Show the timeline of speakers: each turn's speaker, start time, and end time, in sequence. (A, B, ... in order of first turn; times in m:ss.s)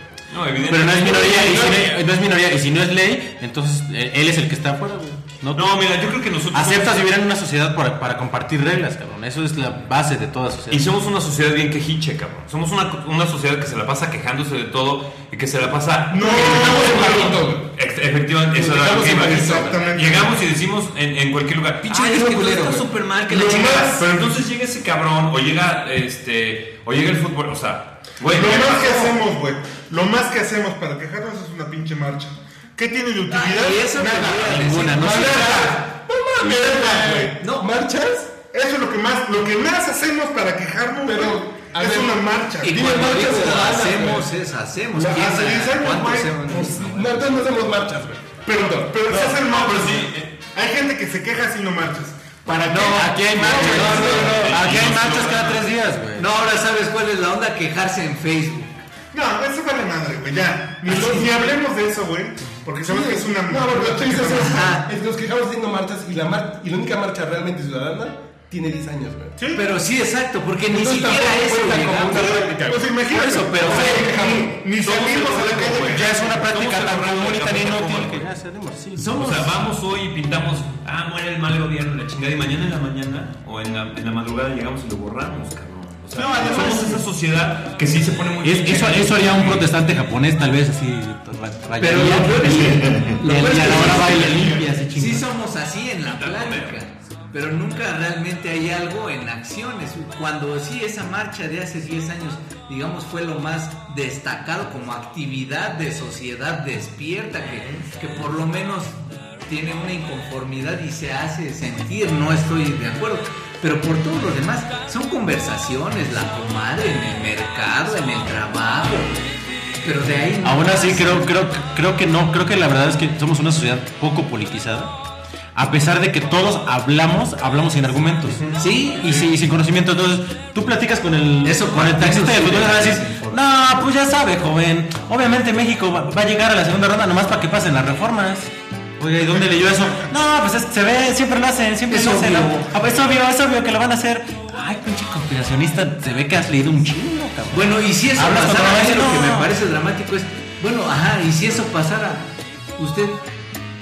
0:00.3-0:01.9 A
0:00.7-0:05.7 B
0:00.8-0:01.9 C
0:05.5-0:07.1 A
0:06.5-0:10.8 B
0:10.7-0:29.1 A
0:16.1-0:17.4 D
0:16.2-0:17.7 C
0:18.5-0:19.8 C
0:18.9-0:20.4 D
0:21.9-0:22.9 C
0:23.3-0:24.3 D
0:28.3-0:37.4 D
0:33.3-0:35.8 E
0:34.4-0:35.5 B
0:34.9-0:38.3 C
0:37.4-0:37.7 E
0:38.5-0:43.0 D
0:41.0-0:44.3 C
0:42.6-0:47.5 E
0:44.9-0:46.4 D
0:46.4-0:49.3 C
0:48.4-0:54.2 D
0:49.1-0:50.3 A
0:52.5-0:54.1 E
0:52.7-0:56.2 B
0:53.3-0:54.6 C
0:54.2-0:55.7 A
0:56.1-0:58.7 E
0:59.1-1:04.6 D
1:00.9-1:01.5 C
1:02.8-1:09.4 C
1:04.3-1:04.9 E
1:09.4-1:09.7 D
1:09.5-1:12.6 E
1:10.7-1:12.9 C
1:12.1-1:16.2 D
1:13.1-1:14.2 E
1:13.5-1:15.8 C
1:14.9-1:18.2 A
1:15.8-1:19.1 B
1:19.0-1:19.5 E
1:19.1-1:29.8 A
1:26.2-1:27.0 E
1:28.4-1:35.2 B
1:31.8-1:59.2 E
1:32.6-1:33.1 A
1:36.0-1:36.8 A
1:47.5-1:47.8 D
1:59.8-2:01.3 E
2:00.4-2:04.9 B
2:05.5-2:08.5 B
2:08.4-2:08.6 D
2:08.6-2:09.2 E
2:09.0-2:29.5 B
2:11.4-2:13.4 E
2:21.9-2:22.7 E
2:27.5-2:33.2 E